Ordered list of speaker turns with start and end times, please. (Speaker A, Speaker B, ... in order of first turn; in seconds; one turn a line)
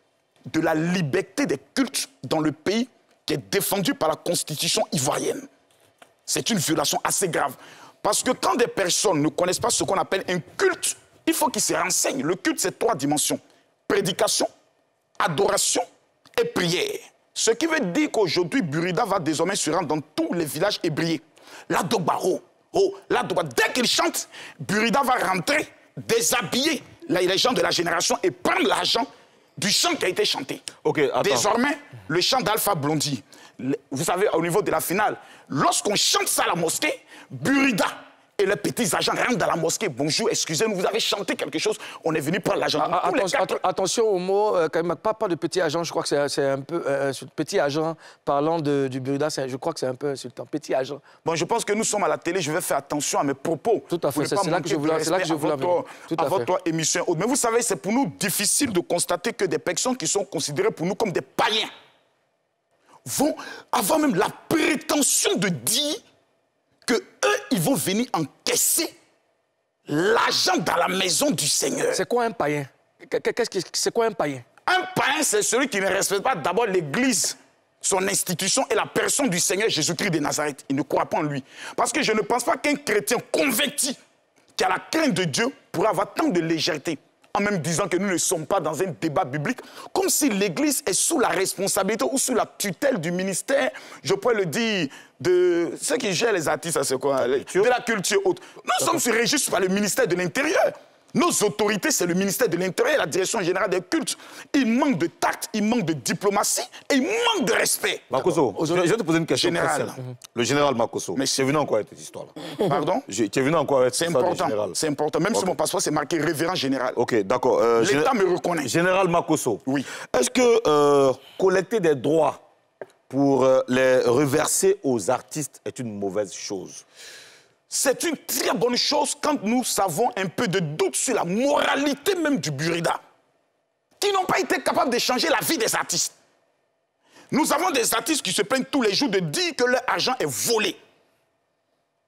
Speaker A: 0.5-5.5
Speaker A: 6.3-14.5
Speaker A: 15.2-15.8
Speaker A: 16.4-30.7
Speaker B: 30.8-31.5
Speaker A: 31.2-43.6
Speaker C: 42.8-51.0
Speaker A: 51.2-61.7
Speaker C: 53.9-56.5
Speaker A: 63.0-66.0
Speaker A: 66.9-68.9
Speaker A: 69.9-72.0
Speaker C: 71.9-74.4
Speaker A: 74.7-84.0
Speaker A: 84.6-108.3
Speaker B: 97.2-97.7
Speaker B: 108.1-112.3
Speaker C: 108.5-108.8
Speaker A: 109.3-110.0
Speaker A: 111.2-111.4
Speaker A: 112.6-113.1
Speaker B: 113.1-114.8
Speaker A: 113.9-117.0
Speaker B: 116.9-122.4
Speaker A: 117.8-118.7
Speaker A: 119.7-119.9
Speaker B: 123.1-126.8
Speaker A: 127.7-133.0
Speaker A: 134.0-136.1
Speaker A: 137.3-140.8